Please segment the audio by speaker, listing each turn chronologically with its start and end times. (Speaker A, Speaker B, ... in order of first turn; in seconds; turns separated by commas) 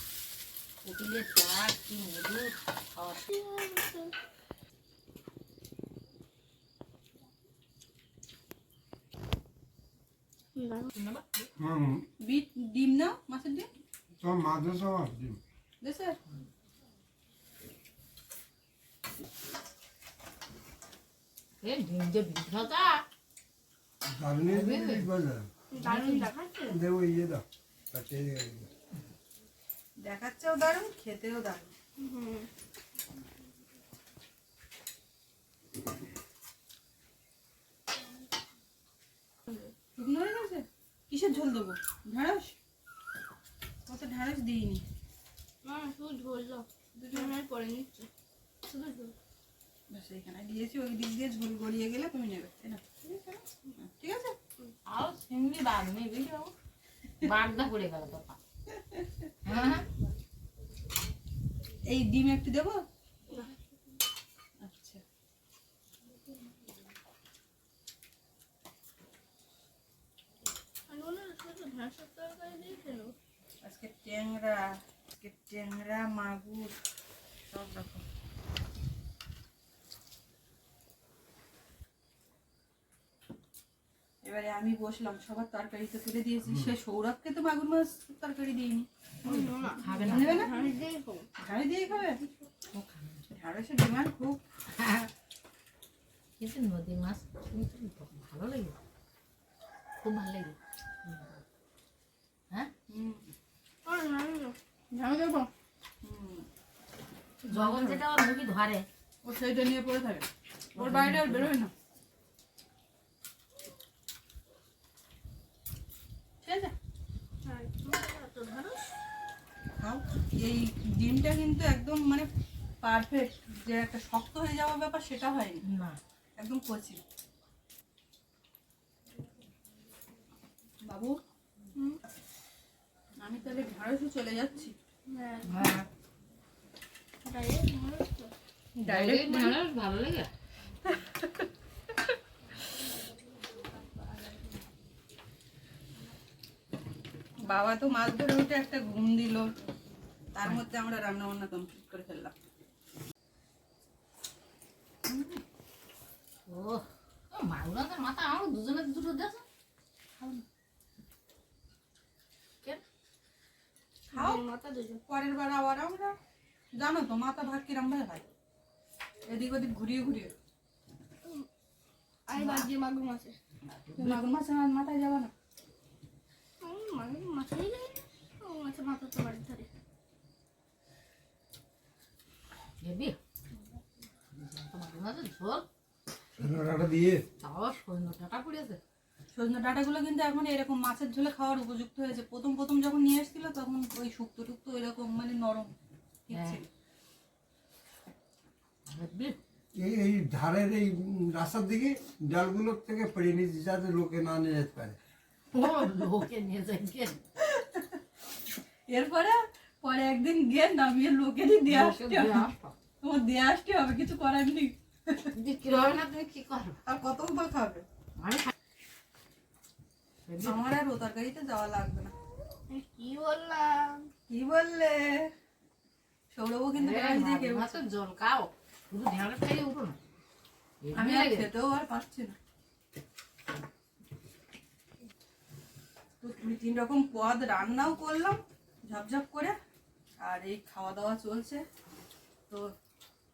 Speaker A: 0.8-3.3, Speaker B: 3.3-4.1, Speaker B: 10.6-10.9, Speaker A: 10.9-11.5, Speaker C: 11.6-12.1, Speaker D: 12.2-13.7, Speaker C: 14.2-15.4, Speaker D: 15.8-16.2, Speaker A: 21.6-23.0, Speaker C: 24.1-25.5, Speaker A: 24.5-25.1, Speaker B: 25.7-26.8, Speaker A: 25.8-26.3, Speaker C: 26.7-28.7, Speaker D: 30.0-31.7, Speaker B: 32.0-32.5, Speaker D: 40.0-42.6, Speaker D: 43.9-44.8, Speaker B: 45.6-48.1, Speaker D: 47.0-47.4, Speaker B: 48.6-49.1, Speaker D: 49.9-54.4, Speaker A: 54.9-56.5, Speaker A: 57.2-58.4, Speaker D: 58.8-59.0, Speaker A: 59.5-59.9, Speaker D: 61.9-62.8, Speaker D: 64.6-65.0, Speaker B: 70.9-73.1, Speaker D: 73.6-74.7, Speaker D: 75.2-76.8, Speaker D: 77.5-78.0, Speaker D: 84.2-88.9, Speaker B: 89.2-91.3, Speaker A: 89.2-90.5, Speaker D: 90.1-90.7, Speaker D: 91.4-92.2, Speaker A: 92.7-93.3, Speaker D: 93.3-94.4, Speaker A: 94.8-95.1, Speaker A: 96.4-98.8, Speaker A: 100.0-101.4, Speaker D: 102.9-103.3, Speaker B: 103.9-105.5, Speaker D: 106.0-106.5, Speaker D: 107.5-108.0, Speaker A: 107.5-108.9, Speaker D: 109.2-111.7, Speaker A: 110.8-111.5, Speaker D: 116.4-116.7, Speaker B: 117.5-118.8, Speaker D: 119.8-122.3, Speaker D: 122.8-125.7, Speaker A: 125.7-126.0, Speaker D: 126.4-127.0, Speaker D: 130.8-131.2, Speaker D: 133.2-134.8, Speaker B: 135.1-135.8, Speaker A: 135.4-135.9, Speaker B: 137.2-138.3, Speaker D: 138.8-139.6, Speaker A: 138.9-140.3, Speaker D: 140.9-141.5, Speaker D: 147.5-149.5, Speaker D: 150.3-152.3, Speaker A: 156.5-159.4, Speaker D: 160.2-160.4, Speaker D: 164.1-164.4, Speaker B: 164.1-165.0, Speaker D: 165.1-166.2, Speaker D: 166.8-168.2, Speaker D: 169.3-170.3, Speaker B: 172.3-173.4, Speaker D: 172.3-172.6, Speaker A: 173.8-174.2, Speaker D: 174.0-175.3, Speaker B: 176.6-179.7, Speaker A: 182.8-183.2, Speaker A: 184.3-185.7, Speaker C: 186.4-187.2, Speaker A: 187.4-188.8, Speaker D: 189.3-195.7, Speaker D: 196.3-196.7, Speaker A: 196.3-196.6, Speaker A: 198.9-199.4, Speaker C: 199.8-205.0, Speaker A: 205.5-207.2, Speaker D: 207.4-208.0, Speaker D: 208.9-212.5, Speaker A: 211.7-212.8, Speaker D: 213.0-215.3, Speaker A: 215.4-216.8, Speaker D: 216.8-217.8, Speaker A: 218.2-218.5, Speaker A: 220.2-220.6, Speaker D: 220.4-222.1, Speaker B: 222.7-224.1, Speaker D: 224.3-225.3, Speaker D: 226.3-227.8, Speaker A: 226.8-230.0, Speaker A: 230.8-231.5, Speaker D: 230.9-232.4, Speaker D: 236.2-239.6, Speaker D: 240.2-241.6